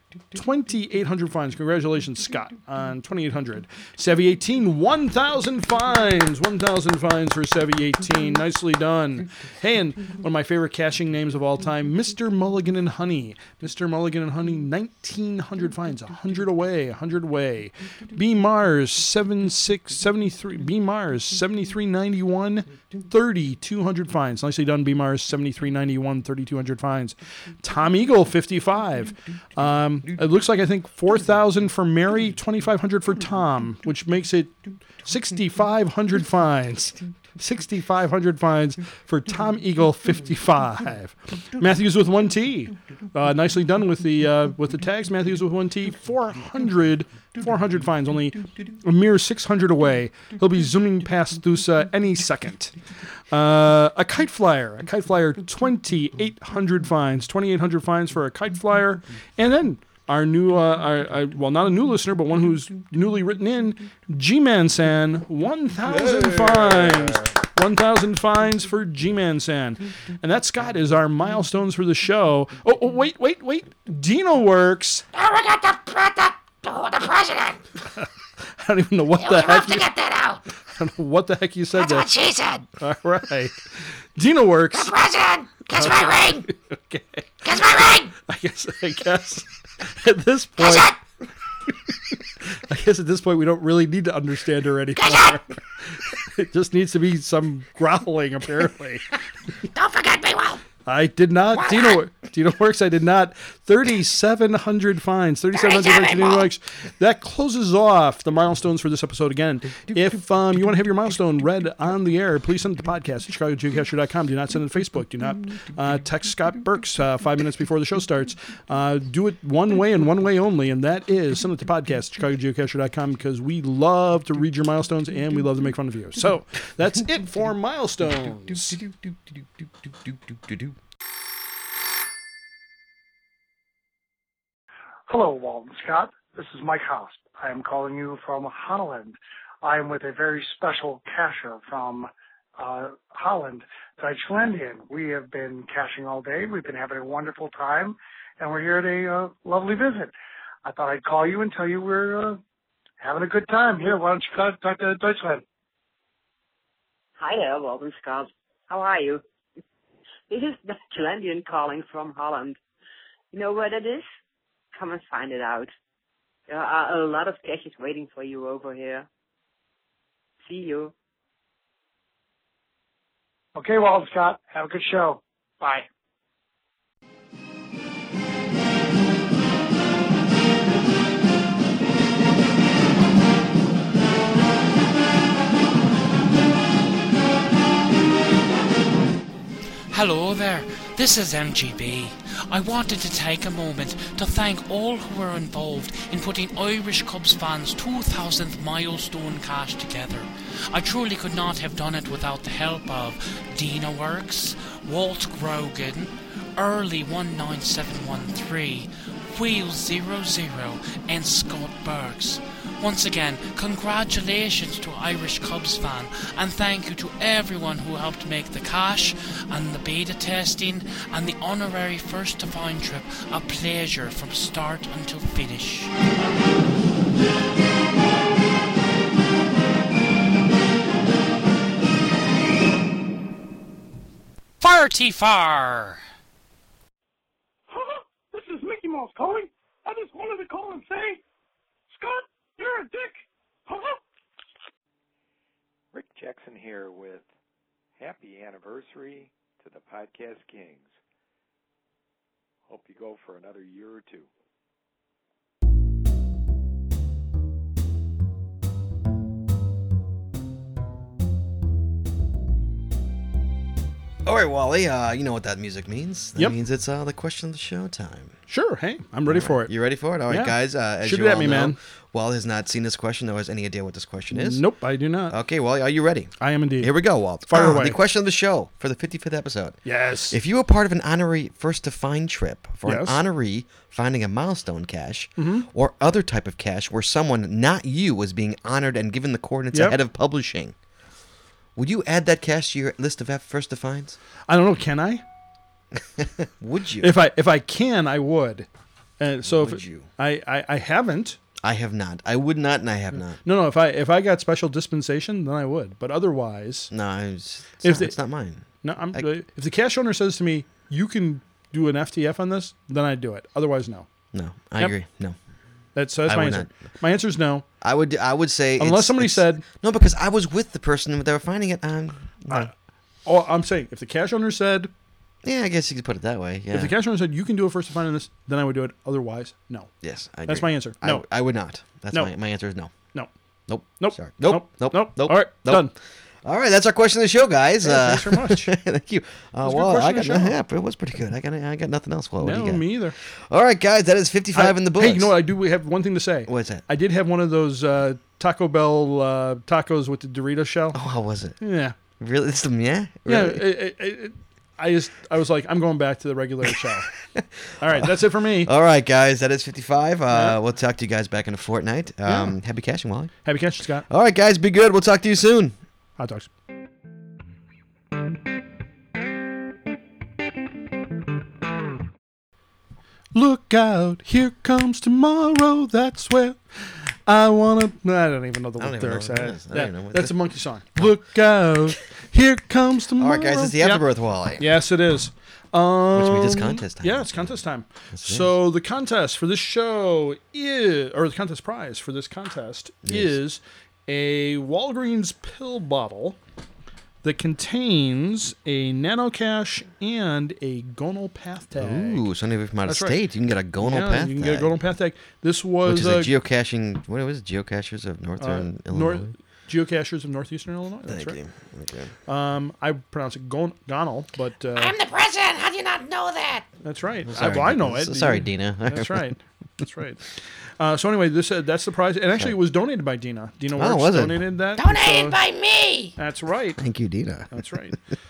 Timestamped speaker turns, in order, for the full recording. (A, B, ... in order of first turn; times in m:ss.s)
0:00.3-0:34.5 A
0:35.0-0:52.8 A
0:53.3-1:15.0 A
1:05.9-1:07.3 B
1:15.1-1:17.6 C
1:17.9-1:19.9 A
1:19.2-1:20.4 C
1:20.7-1:22.1 A
1:21.7-1:22.7 C
1:22.8-1:24.9 A
1:24.7-1:26.5 C
1:25.7-1:27.6 A
1:27.4-1:28.1 C
1:28.1-1:30.9 A
1:30.6-1:31.0 C
1:32.4-1:39.1 A
1:35.0-1:35.4 C
1:39.7-1:40.6 C
1:40.9-2:08.9 A
1:41.5-1:42.0 C
1:45.5-1:46.5 C
2:15.1-2:30.1 D
2:30.6-2:32.4 D
2:33.0-2:35.4 D
2:37.2-2:39.2 E
2:40.3-2:42.6 E
2:43.3-2:44.0 E
2:44.7-2:45.7 E
2:46.5-2:49.1 E
2:50.4-2:50.9 E
2:53.6-2:55.9 D
3:09.9-3:45.9 F
3:54.6-3:56.0 F
3:57.7-4:01.2 G
4:02.0-4:03.9 G
4:05.9-4:07.3 H
4:08.0-4:10.9 H
4:12.7-4:14.3 H
4:24.2-4:28.3 B
4:28.5-4:29.7 A
4:29.3-4:34.6 B
4:30.3-4:31.8 A
4:34.3-4:35.4 A
4:35.3-4:50.7 B
4:36.4-4:38.0 A
4:39.8-4:40.4 A
4:42.8-4:43.2 A
4:45.4-4:45.7 A
4:49.7-4:50.0 A
4:51.8-4:54.2 B
4:54.5-4:55.2 A
4:56.6-4:57.2 B
4:57.0-4:58.7 A
4:59.2-5:01.4 A
4:59.4-5:00.1 B
5:01.6-5:03.4 B
5:03.4-5:06.9 A
5:06.9-5:09.3 B
5:07.8-5:08.1 A
5:08.8-5:14.1 A
5:14.3-5:15.4 B
5:16.0-5:17.6 A
5:16.3-5:16.7 B
5:17.8-5:22.7 B
5:18.8-5:19.6 A
5:23.2-5:24.9 A
5:25.4-5:26.9 B
5:26.7-5:29.9 A
5:30.0-5:32.9 B
5:30.5-5:31.2 A
5:33.7-5:35.9 B
5:34.0-5:35.9 A
5:36.4-5:42.9 B
5:37.8-5:38.7 A
5:39.6-5:40.6 A
5:42.4-5:43.2 A
5:43.5-5:45.3 B
5:44.5-5:51.0 A
5:46.5-5:46.8 B
5:50.9-5:51.6 B
5:51.6-5:52.0 A
5:52.2-5:53.6 B
5:53.3-5:57.1 A
5:57.3-5:58.1 B
5:57.8-5:58.7 A
5:58.6-6:03.3 B
6:00.3-6:00.6 A
6:02.2-6:02.6 A
6:03.4-6:04.0 A
6:04.1-6:05.8 B
6:06.2-6:06.5 A
6:13.3-6:24.0 A
6:18.8-6:20.4 B
6:23.2-6:24.7 B
6:24.6-6:36.4 A
6:26.1-6:27.6 B
6:28.1-6:28.6 B
6:33.0-6:33.4 B
6:37.2-6:42.3 A
6:41.8-6:44.7 B
6:42.8-6:43.2 A
6:43.8-6:46.3 A
6:45.8-6:49.3 B
6:48.4-6:51.4 A
6:51.1-6:52.1 B
6:52.3-6:55.0 A
6:54.8-6:56.7 C
6:56.8-7:00.2 A
6:57.2-6:59.3 B
7:00.8-7:05.4 A
7:03.8-7:04.4 B
7:04.7-7:06.1 C
7:06.2-7:06.8 A
7:06.8-7:07.7 B
7:07.5-7:08.0 A